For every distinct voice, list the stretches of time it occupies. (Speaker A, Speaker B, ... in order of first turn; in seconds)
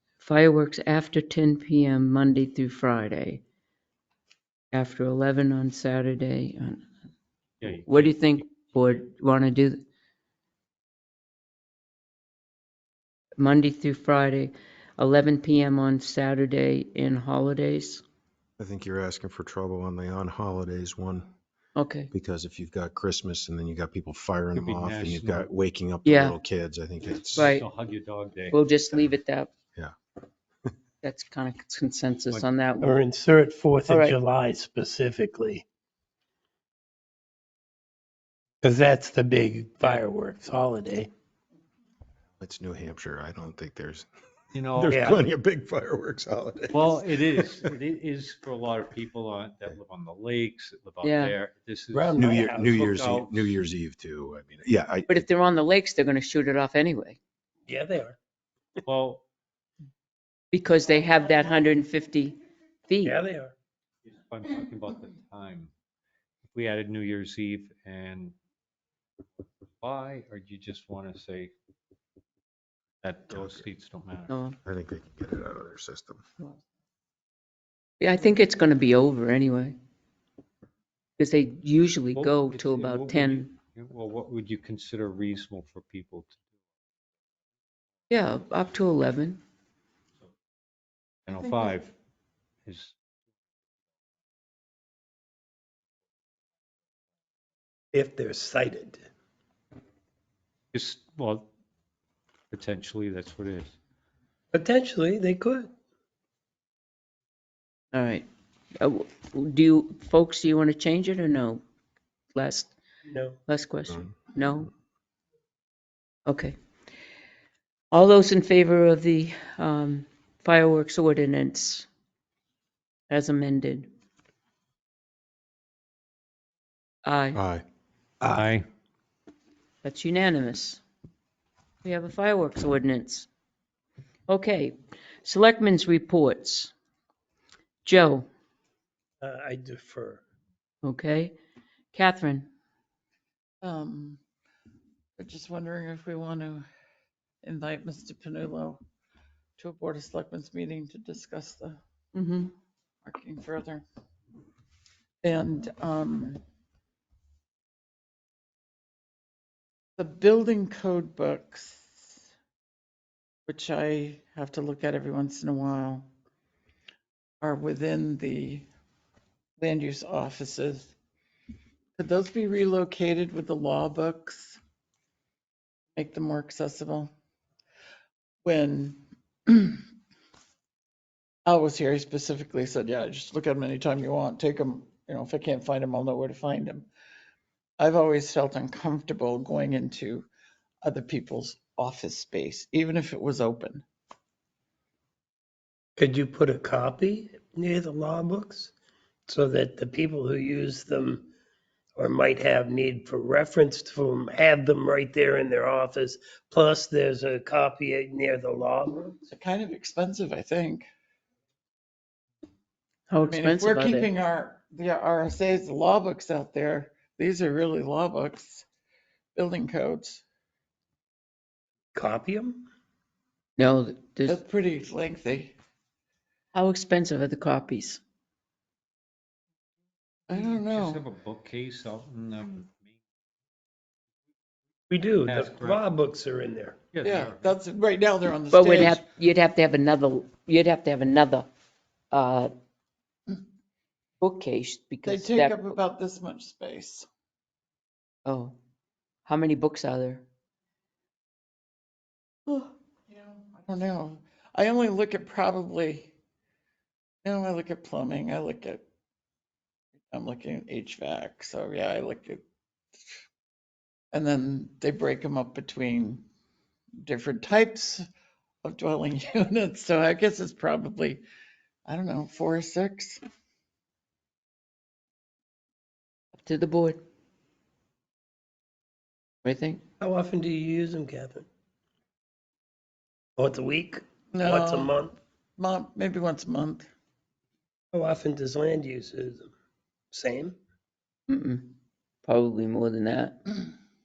Speaker A: 0.2-3.4, 4.7-6.8, 7.9-9.8, 13.4-18.0, 21.8-22.1, 26.1-26.4, 27.4-27.7, 28.5-29.5, 31.0-32.9, 33.9-34.2, 51.0-51.4, 55.1-57.2, 60.5-62.4, 62.9-63.2, 74.3-74.6, 78.0-79.8, 81.2-83.5, 88.1-89.4, 107.9-111.6, 112.3-112.7, 113.5-114.7, 116.3-116.5, 117.9-121.9, 123.1-123.9, 127.0-127.4, 129.8-130.8, 131.8-133.3, 134.3-136.7, 137.8-138.3, 140.8-141.3, 141.9-142.5, 152.1-152.5, 213.1-214.1, 223.6-224.4, 226.5-228.0, 238.5-241.5, 242.1-242.5, 244.2-245.6, 248.2-248.6, 249.2-250.2, 276.4-277.0, 279.4-279.8, 291.3-291.7, 292.2-293.4
Speaker B: 7.6-9.0, 24.5-25.5, 27.2-28.6, 44.5-45.2, 46.7-53.6, 58.9-59.2, 64.1-65.7, 66.5-68.3, 69.8-71.5, 73.0-74.3, 82.2-86.4, 91.3-92.0, 92.7-93.0, 100.7-101.5, 102.5-103.8, 128.2-128.7, 230.3-232.8, 235.2-235.8, 236.9-237.6
Speaker C: 18.6-21.3, 22.1-27.6, 42.4-44.1, 44.7-47.5, 52.2-55.2, 73.3-73.6, 74.7-76.2, 127.3-127.6
Speaker D: 32.8-35.6, 38.6-41.1, 44.9-45.2, 51.9-52.8, 57.7-58.2, 63.0-63.5, 97.9-99.1, 104.5-105.7, 113.0-113.4, 139.2-140.2, 196.0-198.7, 199.3-201.3, 202.0-209.2, 221.9-222.7, 234.9-236.9, 280.0-281.5, 283.4-285.1, 287.9-289.5, 290.1-290.6
Speaker E: 143.6-144.2, 145.2-146.7, 147.4-148.8, 149.6-151.8, 153.1-153.8, 155.2-156.4, 160.0-162.1, 163.5-166.1, 167.4-168.7, 169.6-170.9, 172.0-174.6, 176.0-177.1, 178.4-179.8, 181.5-186.9, 187.8-190.3, 190.8-193.8, 209.3-210.8, 213.2-218.6, 219.3-220.2, 224.3-225.5, 230.3-231.0, 237.0-239.0, 245.1-247.1, 253.1-256.1, 257.2-258.8, 260.1-262.4, 264.1-266.2, 267.0-268.1, 268.6-271.2, 271.9-273.2, 284.3-285.0, 285.6-286.9